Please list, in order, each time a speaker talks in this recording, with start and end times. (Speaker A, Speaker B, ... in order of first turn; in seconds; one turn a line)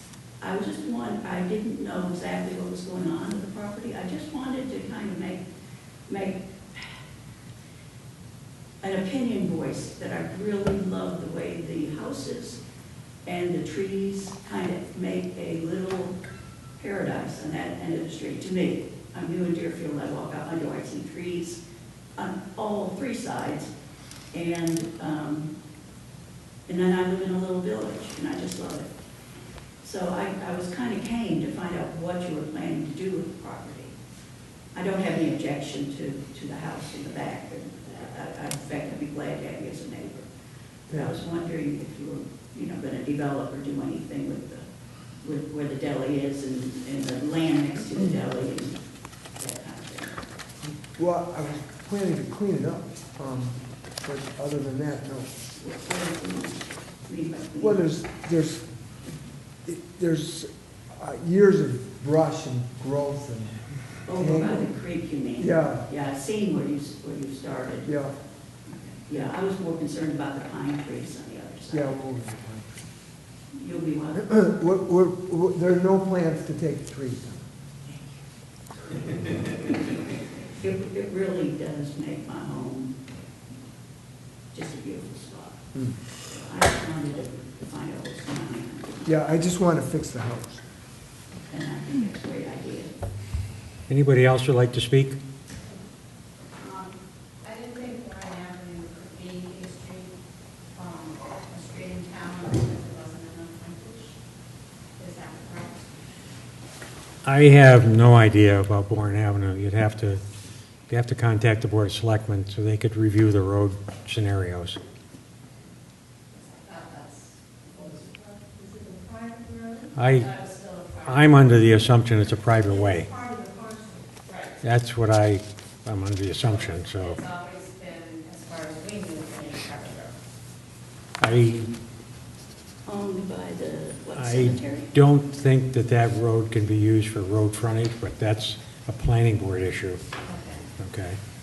Speaker A: 0.4-5.4
Speaker A: 6.1-7.0
Speaker A: 8.8-12.6
Speaker A: 13.2-16.1
Speaker A: 16.8-21.6
Speaker A: 22.2-23.7
Speaker A: 24.3-25.5
Speaker A: 26.7-28.9
Speaker A: 29.8-33.9
Speaker A: 34.7-40.3
Speaker A: 40.9-44.6
Speaker A: 45.2-48.8
Speaker A: 49.4-50.2
Speaker B: 50.8-55.3
Speaker A: 55.6-57.8
Speaker B: 57.6-58.6
Speaker B: 59.6-63.6
Speaker A: 64.1-67.9
Speaker B: 64.1-64.7
Speaker B: 65.4-65.8
Speaker B: 67.8-68.1
Speaker A: 68.7-72.0
Speaker B: 71.7-72.9
Speaker A: 73.5-74.2
Speaker B: 74.1-77.5
Speaker A: 79.1-79.7
Speaker A: 80.6-82.9
Speaker A: 84.5-85.6
Speaker A: 86.3-89.2
Speaker B: 89.0-90.6
Speaker A: 91.5-92.9
Speaker C: 93.9-95.2
Speaker D: 96.6-100.1
Speaker D: 100.7-104.2
Speaker D: 105.0-105.9
Speaker C: 107.2-110.2
Speaker C: 110.9-114.8
Speaker D: 116.3-121.5
Speaker C: 119.9-120.3
Speaker C: 121.0-123.1
Speaker D: 123.0-124.6
Speaker C: 124.6-127.2
Speaker D: 126.6-130.2
Speaker C: 131.2-131.7
Speaker A: 132.8-134.9
Speaker C: 134.2-140.0
Speaker D: 140.2-140.7
Speaker C: 140.8-141.2